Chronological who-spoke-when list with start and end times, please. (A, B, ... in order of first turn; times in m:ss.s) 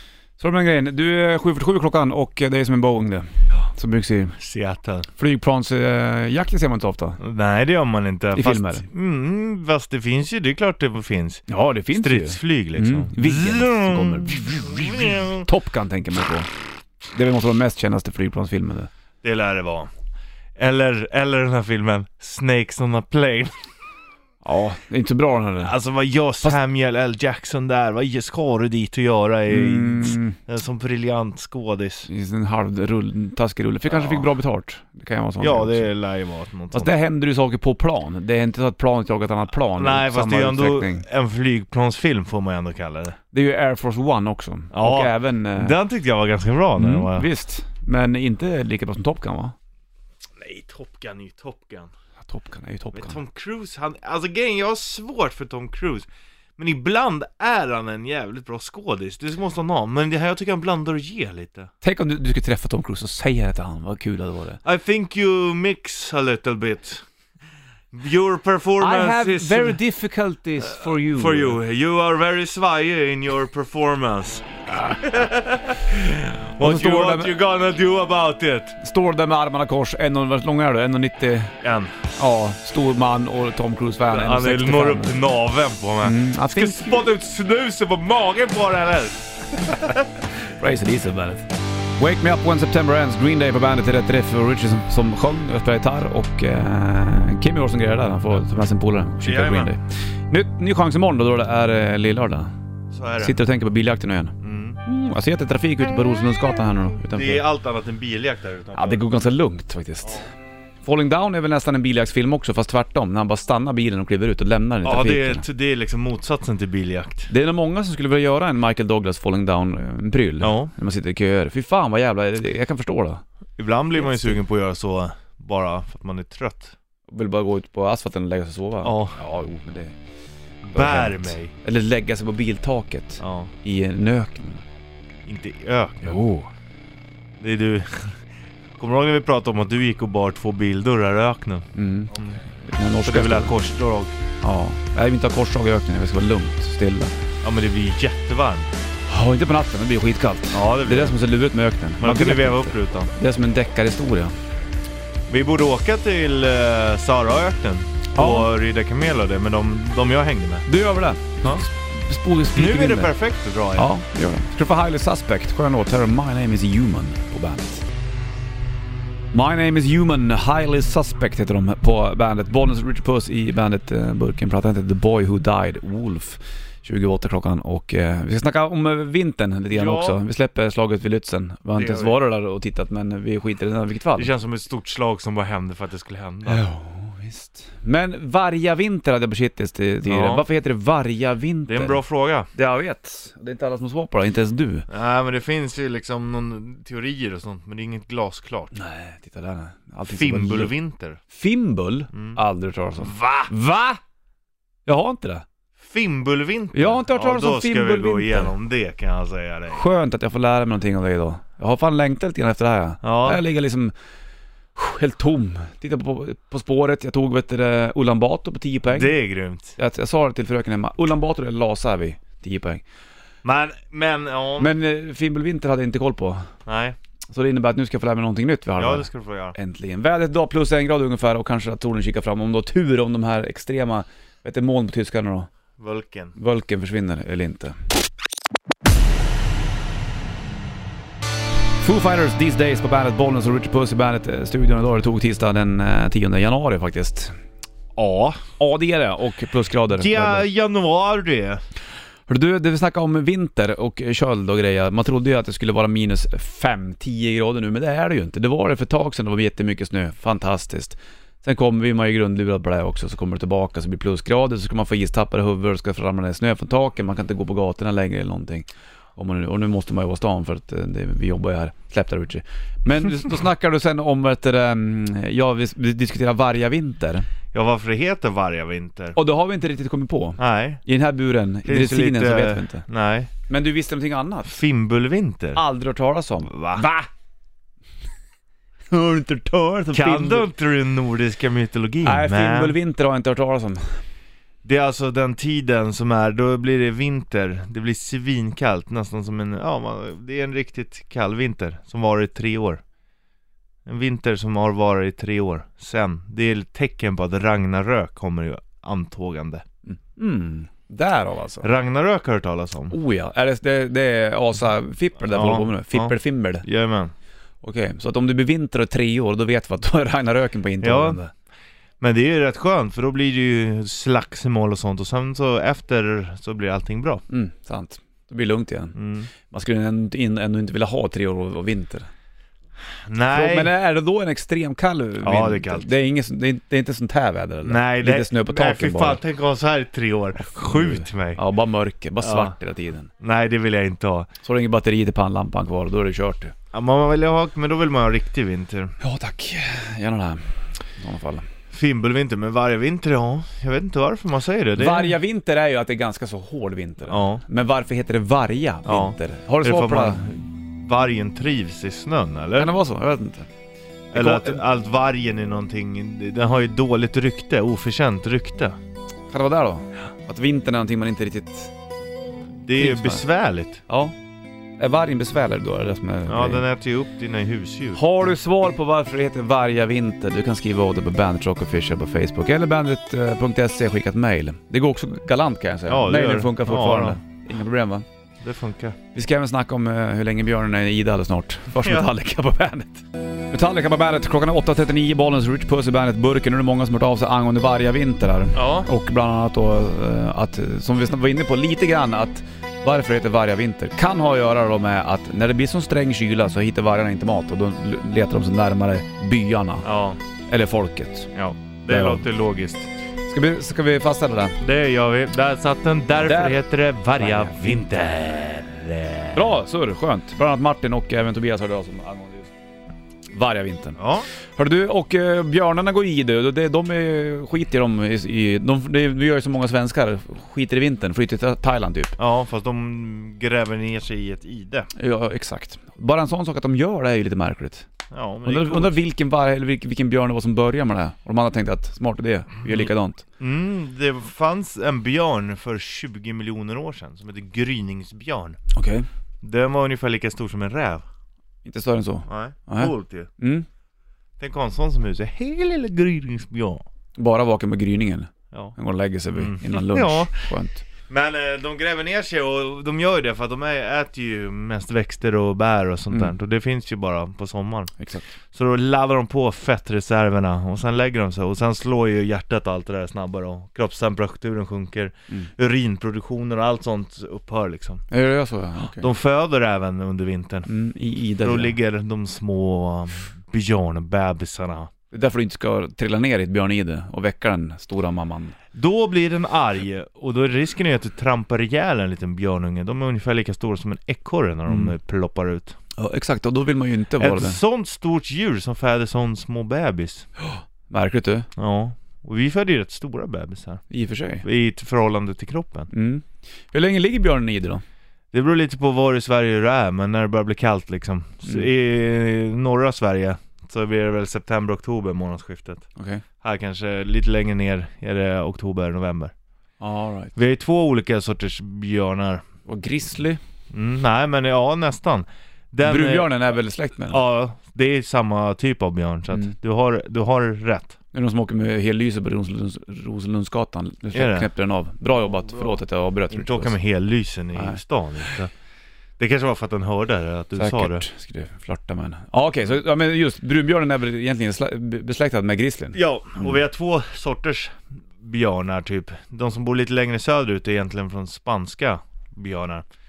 0:00.4-0:04.4 A
0:04.4-0:05.1 B
0:05.2-0:07.2 A
0:07.2-0:15.5 B
0:08.4-0:08.9 A
0:11.5-0:16.5 A
0:17.1-0:18.9 A
0:19.2-0:19.9 B
0:20.6-0:23.5 B
0:24.4-0:25.8 A
0:25.6-0:32.1 B
0:29.5-0:30.4 A
0:32.1-0:35.9 A
0:33.9-0:34.3 B
0:35.4-0:36.9 B
0:36.7-0:41.0 A
0:39.8-0:43.2 B
0:43.3-0:45.8 A
0:44.7-0:47.3 B
0:46.8-0:49.6 A
0:50.4-0:51.9 B
0:52.2-0:53.2 A
0:52.9-1:01.7 B
1:01.8-1:04.6 A
1:04.6-1:07.1 B
1:07.9-1:09.8 B
1:08.8-1:11.6 A
1:10.7-1:18.8 B
1:16.6-1:17.4 A
1:18.8-1:21.5 A
1:21.6-1:22.0 B
1:22.2-1:25.2 A
1:24.1-1:30.1 B
1:26.0-1:27.0 A
1:30.4-1:42.5 A
1:39.2-1:39.7 B
1:42.9-1:43.4 B
1:43.2-1:47.4 A
1:44.4-1:44.8 B
1:47.1-1:49.0 B
1:48.8-1:50.3 A
1:50.8-1:55.4 A
1:54.8-1:57.3 B
1:57.3-2:03.2 A
2:00.4-2:00.7 B
2:03.6-2:06.8 B
2:04.0-2:04.3 A
2:07.1-2:10.0 A
2:08.8-2:09.2 B
2:10.7-2:11.5 B
2:10.7-2:14.6 A
2:13.2-2:13.5 B
2:15.3-2:16.2 B
2:16.0-2:16.5 A
2:17.4-2:18.2 B
2:18.8-2:22.4 B
2:21.8-2:23.6 A
2:23.0-2:24.2 B
2:24.4-2:27.1 A
2:27.4-2:28.7 B
2:29.1-2:34.4 A
2:30.5-2:31.2 B
2:32.0-2:33.1 B
2:35.3-2:40.7 B
2:38.2-2:38.5 A
2:40.7-2:43.2 A
2:42.6-2:43.9 B
2:43.8-2:47.8 A
2:49.3-3:04.3 A
2:59.7-3:00.2 B
3:01.8-3:02.2 B
3:04.2-3:06.6 B
3:06.5-3:12.0 A
3:10.1-3:10.4 B
3:11.7-3:12.5 B
3:12.5-3:14.9 A
3:14.9-3:18.7 B
3:18.7-3:20.7 A
3:20.1-3:21.2 B
3:21.3-3:24.0 A
3:22.1-3:22.4 B
3:23.0-3:23.5 B
3:24.9-3:25.4 A
3:25.8-3:29.9 B
3:26.7-3:28.5 A
3:29.7-3:33.9 A
3:33.0-3:33.4 B
3:34.8-3:39.1 A
3:38.9-3:39.8 B
3:39.8-3:42.8 A
3:43.4-3:44.7 B
3:44.6-3:46.5 A
3:46.7-3:47.0 B
3:47.3-3:55.5 A
3:48.8-3:49.6 B
3:55.8-3:56.4 B
3:56.4-3:57.8 A
4:01.8-4:07.3 A
4:08.0-4:08.4 B
4:08.4-4:10.5 A
4:10.0-4:11.6 B
4:12.3-4:37.3 A
4:37.5-4:39.2 B
4:39.2-4:42.8 A
4:40.4-4:40.8 B
4:41.7-4:43.3 B
4:43.5-4:44.6 A
4:44.5-4:45.6 B
4:45.6-4:47.1 A
4:46.4-4:46.9 B
4:48.9-4:50.5 A
4:49.9-4:52.8 B
4:52.0-4:53.8 A
4:54.6-5:02.8 B
5:03.9-5:09.6 B
5:09.9-5:11.7 A
5:11.6-5:13.0 B
5:12.9-5:16.6 A
5:15.3-5:17.1 B
5:17.6-5:21.3 A
5:20.8-5:21.2 B
5:22.0-5:27.2 B
5:27.3-5:32.1 A
5:29.0-5:29.3 B
5:33.0-5:33.7 B
5:33.3-5:39.2 A
5:35.2-5:35.9 B
5:37.6-5:41.4 B
5:40.6-5:43.1 A
5:42.2-5:42.5 B
5:43.2-5:44.3 B
5:44.4-5:46.5 A
5:46.7-5:48.9 B
5:49.0-5:51.5 A
5:51.7-5:55.1 B
5:54.8-6:00.2 A
5:57.1-5:57.4 B
5:58.9-6:02.8 B
6:02.6-6:03.5 A
6:04.1-6:08.8 B
6:04.1-6:04.6 A
6:09.3-6:11.7 A
6:12.6-6:13.8 B
6:12.8-6:13.2 A
6:13.9-6:14.1 A
6:14.8-6:16.6 A
6:16.3-6:18.0 B
6:18.0-6:28.0 A
6:25.9-6:27.2 B
6:28.4-6:29.0 B
6:29.1-6:49.9 A
6:31.8-6:32.1 B
6:38.5-6:38.9 B
6:49.8-6:50.2 B
6:50.5-6:51.3 A
6:51.3-6:52.9 B
6:51.9-6:52.2 A
6:53.3-6:54.6 A
6:54.6-6:59.4 B
6:56.2-6:56.6 A
6:57.2-6:57.8 A
6:59.3-7:02.5 A
7:03.3-7:04.0 A
7:04.0-7:04.3 B
7:04.6-7:12.2 A
7:12.2-7:14.9 B
7:15.0-7:17.9 A
7:18.1-7:19.0 B
7:18.5-7:23.2 A
7:22.7-7:28.6 B
7:28.7-7:29.1 A
7:29.4-7:31.0 B
7:31.6-7:33.7 A
7:32.3-7:33.3 B
7:34.4-7:36.8 B
7:37.2-7:40.8 A
7:39.3-7:40.5 B
7:41.1-7:48.0 B
7:48.0-7:48.2 A
7:48.5-7:58.0 B
7:58.1-7:59.1 A
7:58.9-8:00.7 B
8:00.7-8:01.8 A
8:01.4-8:04.9 B
8:05.1-8:08.6 A
8:08.7-8:15.8 B
8:14.7-8:14.9 A
8:16.0-8:17.6 A
8:17.2-8:20.3 B
8:20.4-8:21.5 A
8:21.6-8:23.8 B
8:23.9-8:24.4 A
8:24.4-8:25.9 B
8:25.9-8:27.8 A
8:28.3-8:35.9 B
8:36.0-8:36.2 A
8:36.4-8:39.3 B
8:39.8-8:40.4 A
8:40.4-8:42.4 B
8:42.7-8:43.4 A
8:43.7-8:46.4 B
8:45.8-8:47.2 A
8:47.1-8:51.0 B
8:51.1-8:56.8 A
8:54.1-8:54.5 B
8:56.3-8:58.5 B
8:57.6-8:57.8 A
8:59.2-9:01.1 B
9:00.6-9:06.5 A
9:05.9-9:12.8 B